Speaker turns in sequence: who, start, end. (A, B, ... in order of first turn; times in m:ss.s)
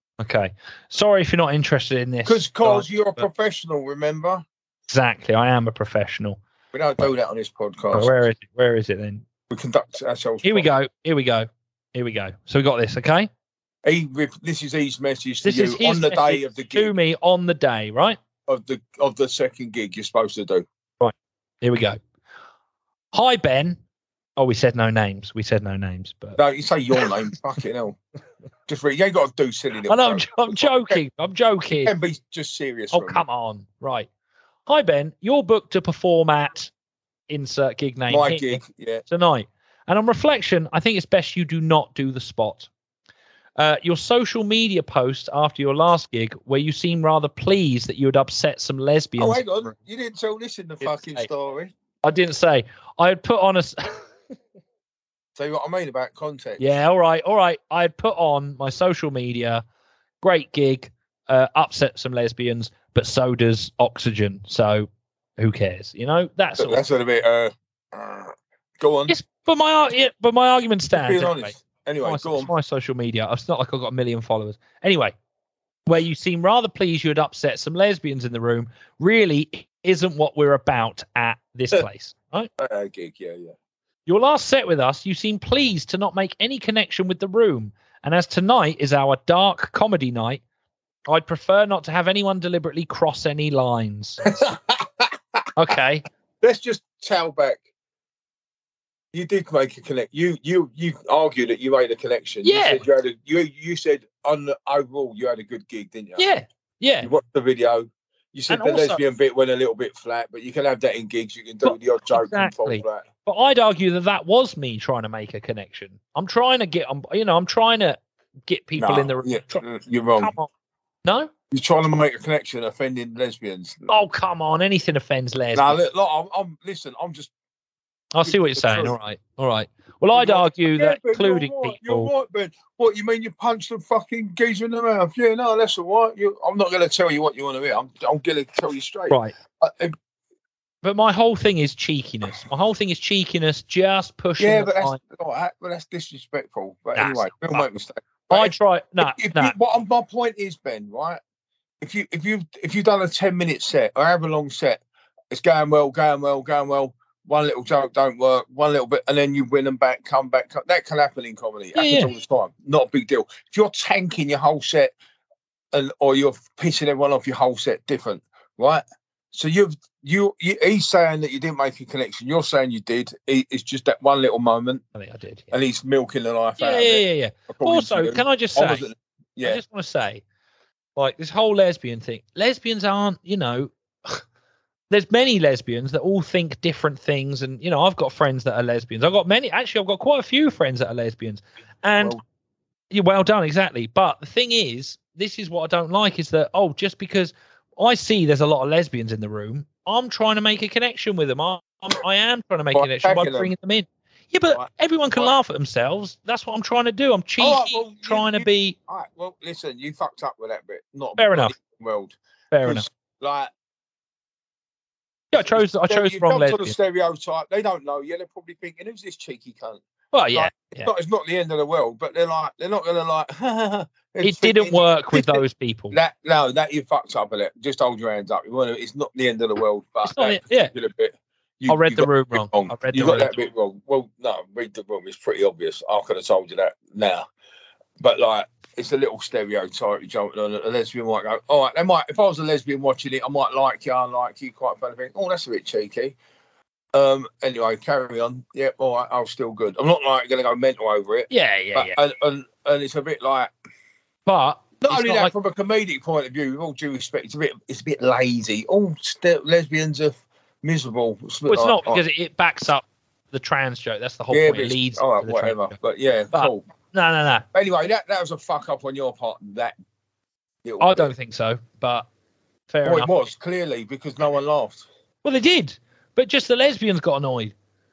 0:00.2-0:03.2 A
0:02.2-0:04.4 B
0:04.9-0:06.4 A
0:06.7-0:08.1 B
0:07.9-0:09.2 A
0:09.5-0:10.7 B
0:10.4-0:13.3 A
0:13.8-0:16.9 B
0:15.4-0:18.2 A
0:18.5-0:20.6 B
0:21.0-0:22.0 A
0:23.1-0:23.8 A
0:24.4-0:26.4 A
0:26.4-0:28.0 B
0:28.7-0:31.0 B
0:29.9-0:31.9 A
0:31.8-0:33.2 B
0:32.9-0:34.1 A
0:34.7-0:36.7 A
0:37.3-0:42.7 A
0:38.1-0:39.0 B
0:43.6-0:49.7 A
0:49.2-0:51.7 B
0:50.8-0:51.3 A
0:52.0-0:54.0 A
0:55.4-0:56.6 B
0:56.6-0:59.6 A
1:00.2-1:06.8 A
1:06.6-1:09.1 B
1:09.1-1:15.1 A
1:10.9-1:12.5 B
1:15.8-1:22.5 A
1:22.6-1:23.5 B
1:24.0-1:30.4 A
1:31.1-1:34.2 A
1:34.2-1:35.1 B
1:35.6-1:36.0 A
1:36.4-1:37.6 B
1:39.1-1:46.3 B
1:42.4-1:42.8 A
1:46.2-1:47.1 A
1:47.0-1:53.0 B
1:48.5-1:49.0 A
1:51.6-1:59.6 A
1:58.8-2:00.3 B
2:00.2-2:00.5 A
2:01.0-2:01.3 A
2:01.5-2:04.0 B
2:03.9-2:05.8 A
2:05.5-2:07.3 B
2:08.1-2:12.1 A
2:08.2-2:09.0 B
2:10.1-2:19.9 B
2:19.1-2:19.3 A
2:20.8-2:25.0 A
2:24.4-2:31.2 B
2:26.9-2:27.6 A
2:28.3-2:29.5 A
2:31.8-2:44.9 B
2:41.7-2:42.1 A
2:45.7-2:54.8 B
2:54.9-2:55.5 A
2:55.5-2:59.6 B
2:56.6-2:58.8 A
2:59.4-3:00.2 A
3:01.0-3:04.2 A
3:04.9-3:12.2 A
3:12.9-3:28.8 A
3:22.7-3:23.5 B
3:24.5-3:25.3 B
3:27.4-3:33.5 B
3:31.2-3:31.5 A
3:32.5-3:32.8 A
3:35.3-3:36.7 A
3:35.3-3:39.8 B
3:40.1-3:40.9 A
3:40.3-3:57.2 B
3:44.2-3:46.0 A
3:50.0-3:50.7 A
3:51.7-3:53.4 A
3:58.0-4:06.2 B
4:06.9-4:13.5 B
4:11.3-4:12.0 A
4:14.2-4:15.3 A
4:14.8-4:22.0 B
4:21.5-4:25.8 A
4:24.3-4:26.6 B
4:26.3-4:27.4 A
4:27.5-4:29.8 B
4:30.6-4:31.1 B
4:30.8-4:32.1 A
4:32.7-4:33.1 A
4:32.8-4:34.8 B
4:35.2-4:37.5 A